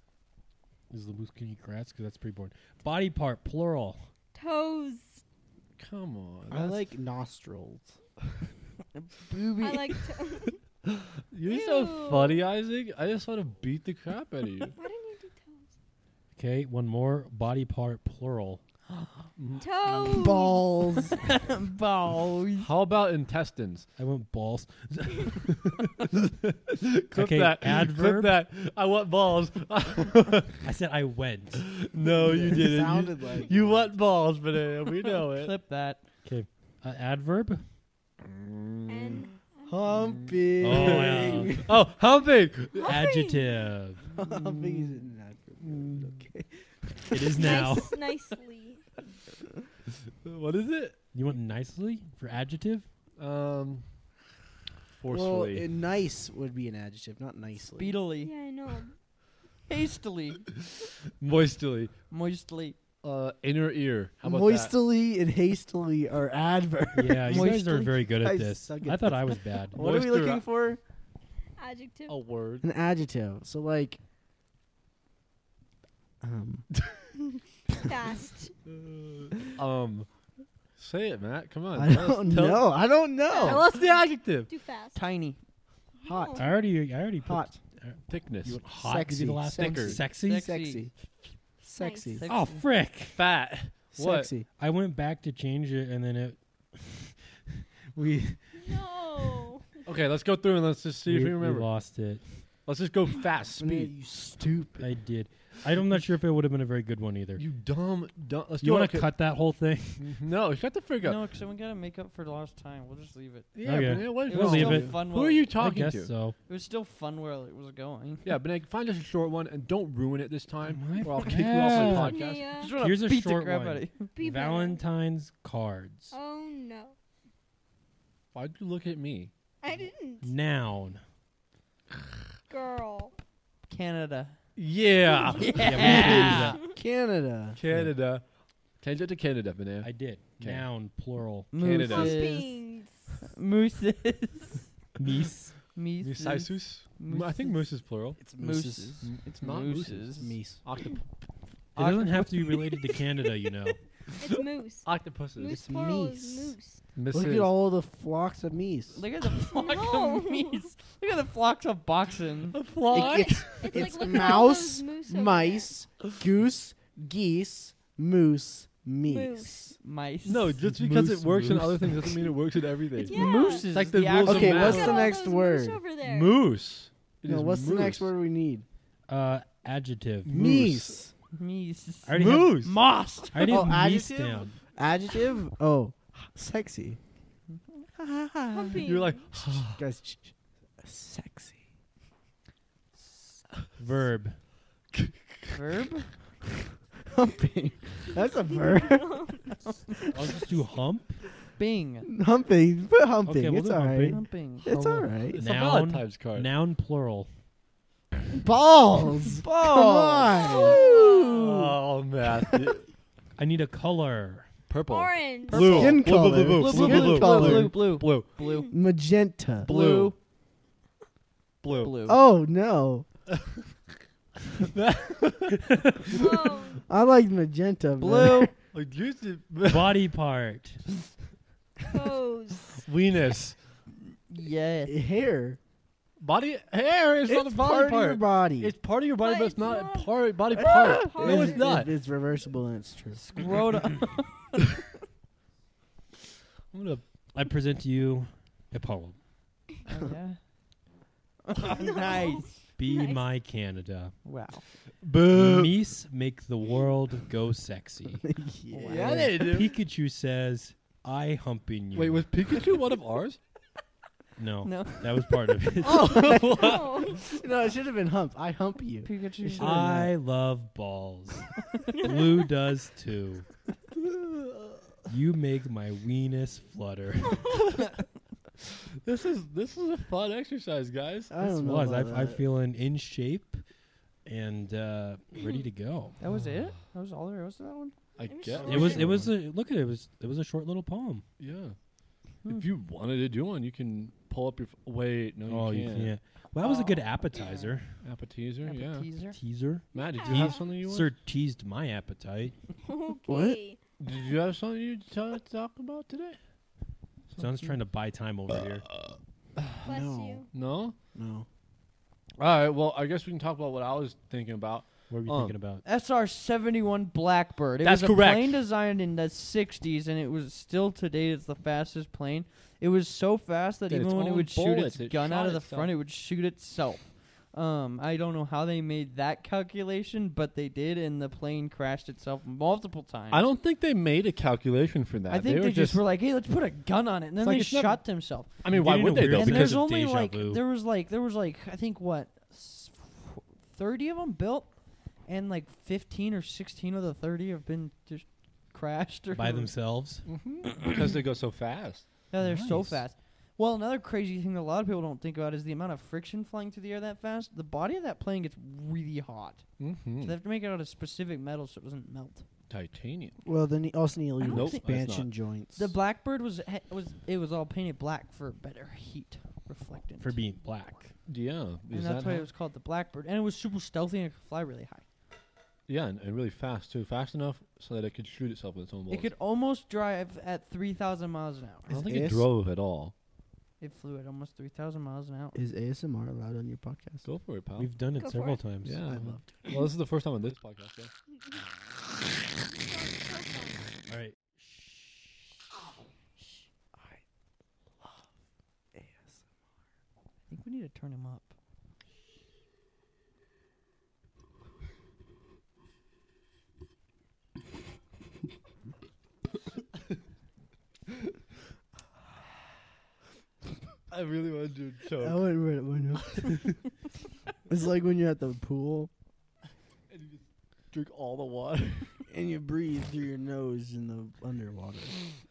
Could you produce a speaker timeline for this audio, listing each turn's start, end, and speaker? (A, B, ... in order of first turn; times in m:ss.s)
0:00.9-0:04.0 A
0:04.3-0:05.2 B
0:05.8-0:06.8 C
0:06.5-0:08.0 D
0:08.9-0:10.0 E
0:09.6-0:10.6 B
0:10.9-0:14.8 C
0:11.5-0:12.4 B
0:14.8-0:15.6 B
0:16.4-0:18.6 A
0:18.9-0:19.3 E
0:19.4-0:20.1 C
0:19.6-0:20.6 B
0:20.0-0:21.2 D
0:21.2-0:22.7 E
0:22.6-0:23.9 C
0:24.0-0:25.9 A
0:26.2-0:30.6 C
0:27.1-0:28.3 A
0:30.6-0:31.7 A
0:31.6-0:35.6 C
0:32.1-0:33.9 D
0:35.1-0:36.1 E
0:36.2-0:37.6 A
0:38.2-0:39.3 C
0:38.9-0:40.2 B
0:39.7-0:41.8 D
0:40.2-0:43.0 C
0:40.6-0:41.7 A
0:42.8-0:43.7 B
0:42.8-0:44.0 A
0:44.2-0:47.8 D
0:45.6-0:46.2 C
0:47.1-0:48.1 A
0:47.3-0:48.8 B
0:50.2-0:51.0 C
0:51.1-0:52.9 A
0:53.2-0:53.8 C
0:55.0-0:55.7 C
0:55.1-0:58.0 D
0:57.7-0:58.3 E
0:58.2-0:58.9 B
0:59.7-1:00.5 E
1:01.2-1:01.9 C
1:02.1-1:02.8 E
1:03.0-1:04.7 C
1:04.2-1:10.8 D
1:07.0-1:09.8 A
1:07.3-1:07.9 E
1:09.8-1:10.4 C
1:11.6-1:12.2 B
1:12.1-1:12.6 C
1:12.6-1:14.0 D
1:16.2-1:16.7 D
1:16.8-1:17.1 C
1:17.8-1:18.5 B
1:18.7-1:20.1 C
1:20.8-1:22.7 C
1:21.7-1:23.7 D
1:23.3-1:25.0 B
1:23.4-1:24.5 C
1:24.9-1:25.4 E
1:26.0-1:26.5 B
1:26.0-1:26.5 D
1:26.4-1:30.4 A
1:27.2-1:27.6 D
1:28.1-1:28.6 C
1:28.5-1:30.9 D
1:29.5-1:30.0 C
1:30.2-1:30.9 E
1:31.6-1:32.3 D
1:31.8-1:32.3 B
1:32.2-1:32.7 E
1:32.3-1:33.2 A
1:33.2-1:34.3 C
1:33.9-1:34.5 D
1:34.6-1:38.7 A
1:38.6-1:39.8 B
1:39.8-1:41.7 C
1:41.1-1:42.2 A
1:42.6-1:43.9 C
1:43.6-1:44.9 D
1:44.8-1:47.4 A
1:47.4-1:49.1 C
1:48.6-1:50.1 A
1:50.0-1:51.2 C
1:51.0-1:53.5 E
1:53.6-1:56.1 C
1:53.6-1:56.4 A
1:54.1-1:55.5 E
1:56.5-1:58.4 E
1:58.2-2:02.5 C
2:00.7-2:02.2 A
2:01.8-2:02.7 B
2:02.6-2:04.1 E
2:02.7-2:06.1 A
2:04.2-2:04.8 B
2:06.1-2:07.0 B
2:08.3-2:09.3 C
2:09.6-2:10.3 B
2:10.2-2:11.0 A
2:12.5-2:13.2 B
2:13.7-2:14.4 E
2:14.6-2:16.4 C
2:15.3-2:15.6 B
2:15.4-2:16.6 E
2:15.6-2:16.7 A
2:16.7-2:17.6 D
2:17.6-2:18.2 C
2:17.7-2:17.9 A
2:18.8-2:20.7 C
2:19.8-2:21.5 A
2:21.5-2:22.7 E
2:21.5-2:22.4 C
2:21.8-2:23.2 B
2:23.2-2:24.7 E
2:25.0-2:25.6 A
2:25.7-2:27.7 E
2:26.0-2:28.2 C
2:28.2-2:29.0 D
2:28.3-2:30.4 E
2:29.0-2:31.1 C
2:30.2-2:30.6 D
2:31.8-2:33.7 E
2:31.8-2:33.8 A
2:34.2-2:36.8 B
2:34.8-2:35.6 C
2:35.4-2:36.6 D
2:37.0-2:37.5 C
2:37.1-2:39.0 D
2:38.9-2:42.6 E
2:39.5-2:40.7 B
2:42.5-2:44.3 C
2:42.9-2:49.8 D
2:43.6-2:45.7 B
2:49.1-2:49.7 B
2:49.8-2:50.6 E
2:50.3-2:55.1 C
2:50.6-2:52.3 A
2:53.0-2:53.7 B
2:53.0-2:55.0 E
2:54.2-2:55.8 D
2:54.6-2:56.4 B
2:56.0-2:58.1 C
2:57.3-2:58.7 D
2:59.1-3:00.4 A
3:00.3-3:01.0 C
3:00.3-3:01.1 D
3:01.3-3:03.6 E
3:02.1-3:02.7 A
3:02.2-3:02.8 C
3:03.3-3:04.6 A
3:03.5-3:07.0 D
3:07.5-3:08.8 E
3:08.5-3:09.2 B
3:08.8-3:09.8 C
3:09.4-3:11.6 D
3:13.8-3:14.4 A
3:14.9-3:15.5 C
3:15.5-3:16.2 E
3:17.0-3:19.6 D
3:18.7-3:19.5 B
3:20.1-3:21.2 A
3:21.6-3:22.1 E
3:22.1-3:25.4 D
3:23.2-3:24.3 A
3:24.1-3:24.7 E
3:24.7-3:26.5 C
3:25.4-3:27.3 A
3:28.3-3:31.8 D
3:29.4-3:31.2 E
3:30.3-3:31.4 B
3:31.2-3:32.9 C
3:32.4-3:32.7 D
3:33.4-3:34.5 A
3:34.7-3:38.3 C
3:34.9-3:35.8 B
3:35.5-3:38.8 E
3:35.5-3:37.8 D
3:38.7-3:39.7 D
3:39.6-3:40.2 E
3:39.6-3:40.2 C
3:41.6-3:42.0 C
3:41.7-3:42.2 E
3:42.1-3:43.1 D
3:44.6-3:46.5 C
3:45.7-3:46.0 A
3:46.1-3:46.8 B
3:46.5-3:48.5 D
3:48.0-3:48.5 E
3:48.7-3:50.0 C
3:49.7-3:50.8 A
3:51.9-3:52.8 B
3:52.8-3:53.6 C
3:54.3-3:55.0 E
3:54.9-3:55.6 D
3:56.2-4:01.9 C
3:57.3-3:58.7 D
3:59.2-4:01.8 B
4:00.6-4:03.2 D
4:03.2-4:04.8 E
4:06.7-4:07.0 C
4:07.3-4:09.2 A
4:09.8-4:10.4 E
4:11.4-4:13.2 E
4:11.6-4:13.2 B
4:12.8-4:14.2 A
4:14.2-4:14.7 E
4:15.0-4:15.8 C
4:15.3-4:18.3 A
4:18.2-4:19.4 D
4:18.7-4:19.3 E
4:18.9-4:19.8 C
4:19.3-4:22.3 A
4:22.0-4:23.4 C
4:24.4-4:26.3 A
4:24.6-4:25.6 E
4:25.8-4:27.3 C
4:25.8-4:30.1 D
4:26.5-4:27.3 B
4:29.0-4:30.1 E
4:29.6-4:33.5 A
4:31.6-4:32.2 E
4:34.1-4:34.8 C
4:35.1-4:37.6 A
4:39.0-4:41.3 C
4:41.3-4:42.4 D
4:41.4-4:43.6 A
4:44.2-4:46.2 A
4:46.2-4:48.0 E
4:46.3-4:46.7 C
4:48.2-4:49.3 C
4:48.3-4:49.2 B
4:48.6-4:51.2 A
4:51.4-4:51.8 C
4:52.5-4:56.2 C
4:55.5-4:58.0 A
4:56.6-4:57.5 E
4:58.0-4:59.1 C
4:58.6-4:59.4 E
4:59.3-5:02.6 A
4:59.9-5:00.7 B
4:59.9-5:01.1 C
5:02.8-5:03.8 B
5:03.3-5:03.6 D
5:04.0-5:06.4 C
5:07.4-5:08.9 A
5:08.6-5:09.8 C
5:09.8-5:10.5 D
5:09.8-5:10.5 B
5:10.5-5:11.0 C
5:11.1-5:11.5 D
5:12.4-5:15.6 C
5:15.1-5:15.8 A
5:15.8-5:33.5 E
5:17.8-5:18.6 C
5:23.9-5:25.9 C
5:33.3-5:36.0 C
5:35.3-5:49.7 E
5:37.4-5:39.8 C
5:38.7-5:40.6 A
5:49.3-5:50.3 A
5:50.2-5:52.2 C
5:52.3-5:59.7 E
5:52.4-5:53.0 A
5:59.8-6:00.4 C
6:00.2-6:02.5 E
6:02.7-6:03.4 C
6:03.4-6:05.9 D
6:04.4-6:04.8 E
6:04.4-6:05.3 C
6:05.8-6:10.4 E
6:10.2-6:11.2 A
6:11.3-6:12.5 C
6:11.9-6:15.0 E
6:15.9-6:19.3 C
6:19.1-6:22.0 E
6:21.9-6:22.5 D
6:21.9-6:23.1 C
6:23.8-6:25.6 E
6:25.6-6:27.3 D
6:27.2-6:27.9 C
6:27.8-6:29.2 A
6:28.2-6:28.6 B
6:28.8-6:31.1 C
6:29.1-6:29.7 D
6:32.8-6:34.0 B
6:34.1-6:35.6 A
6:37.0-6:37.2 D
6:38.0-6:38.3 D
6:38.9-6:39.4 D
6:40.5-6:41.6 E
6:54.1-6:55.5 C
6:55.2-6:56.7 D
6:57.7-6:59.1 D
7:00.1-7:02.2 C
7:02.3-7:05.3 D